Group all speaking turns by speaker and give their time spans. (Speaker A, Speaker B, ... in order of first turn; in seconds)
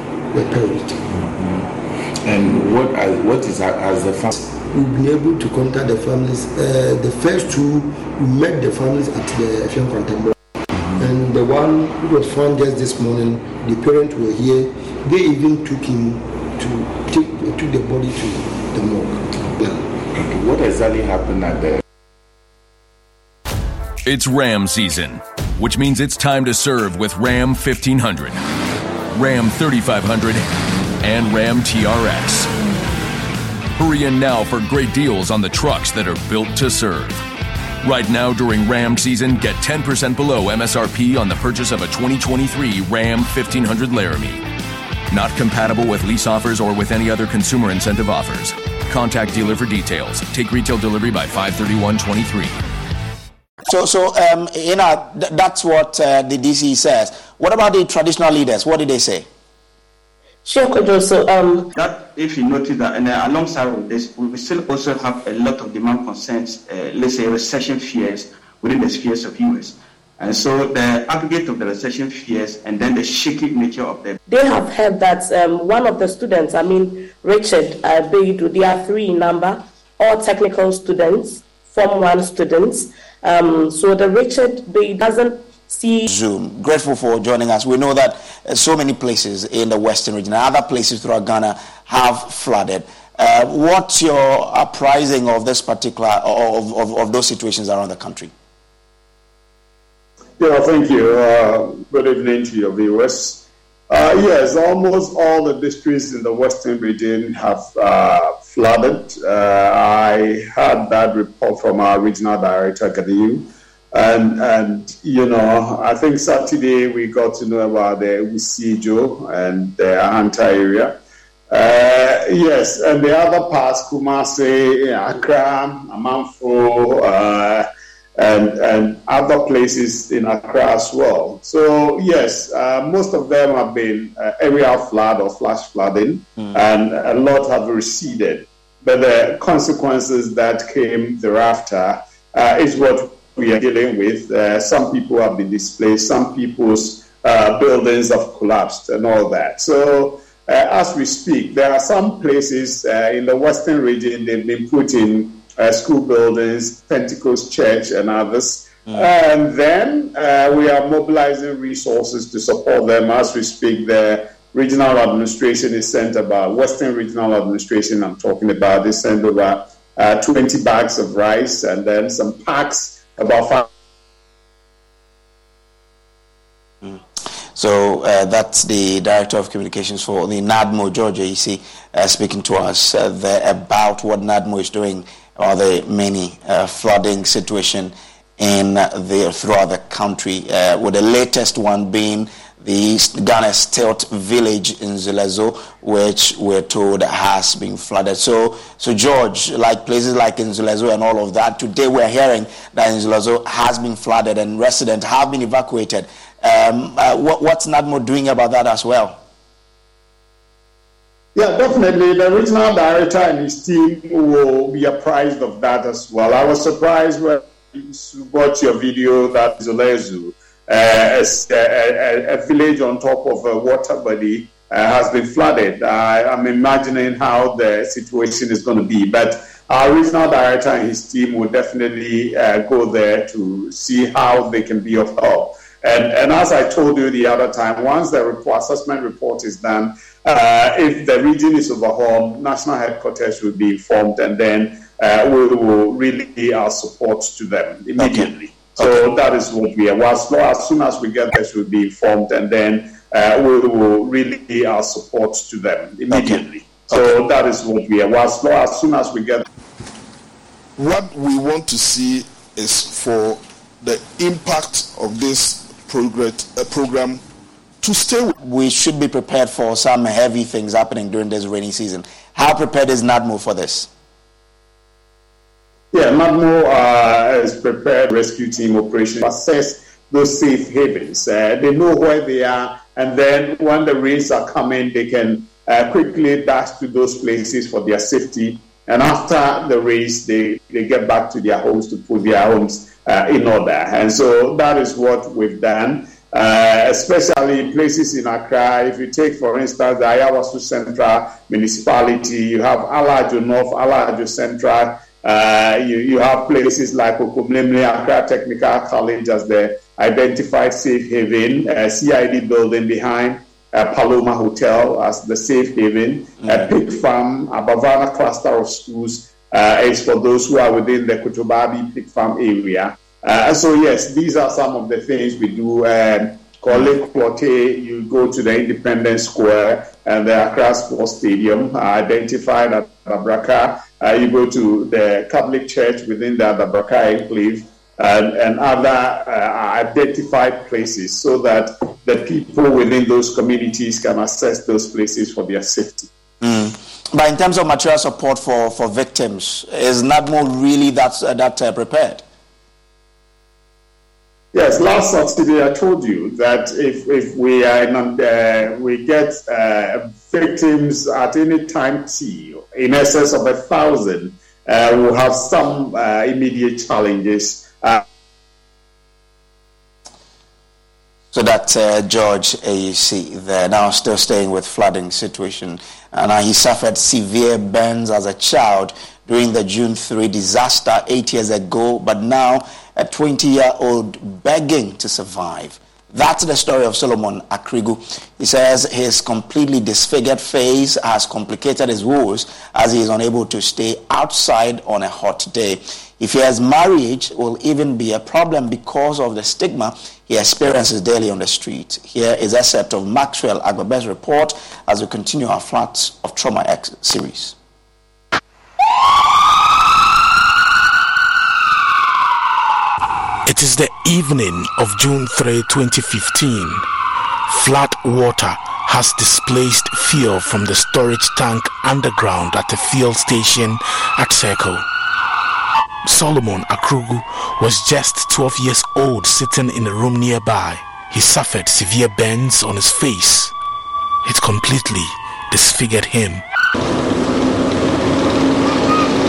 Speaker A: 0.3-1.0, 4.5-10.4, 10.9-19.8
Speaker B: 1.1-1.7, 2.2-4.3, 20.1-21.8
Speaker C: 24.1-28.4, 29.1-30.4, 31.0-32.5, 33.8-37.2, 37.8-44.4, 45.1-52.5
Speaker D: 53.6-59.3, 86.1-98.3, 177.5-209.2, 248.0-248.3, 256.1-257.0, 268.4-273.9, 346.4-352.2, 371.3-407.5
Speaker E: 60.4-61.7, 74.3-86.1
Speaker F: 61.7-74.2
Speaker G: 100.4-121.0, 121.5-127.7, 128.2-173.7, 211.3-259.4, 275.9-346.1, 354.5-368.0
Speaker H: 260.8-267.2, 267.8-268.3
Speaker I: 413.4-416.9, 417.5-424.9, 426.0-433.5, 434.2-436.4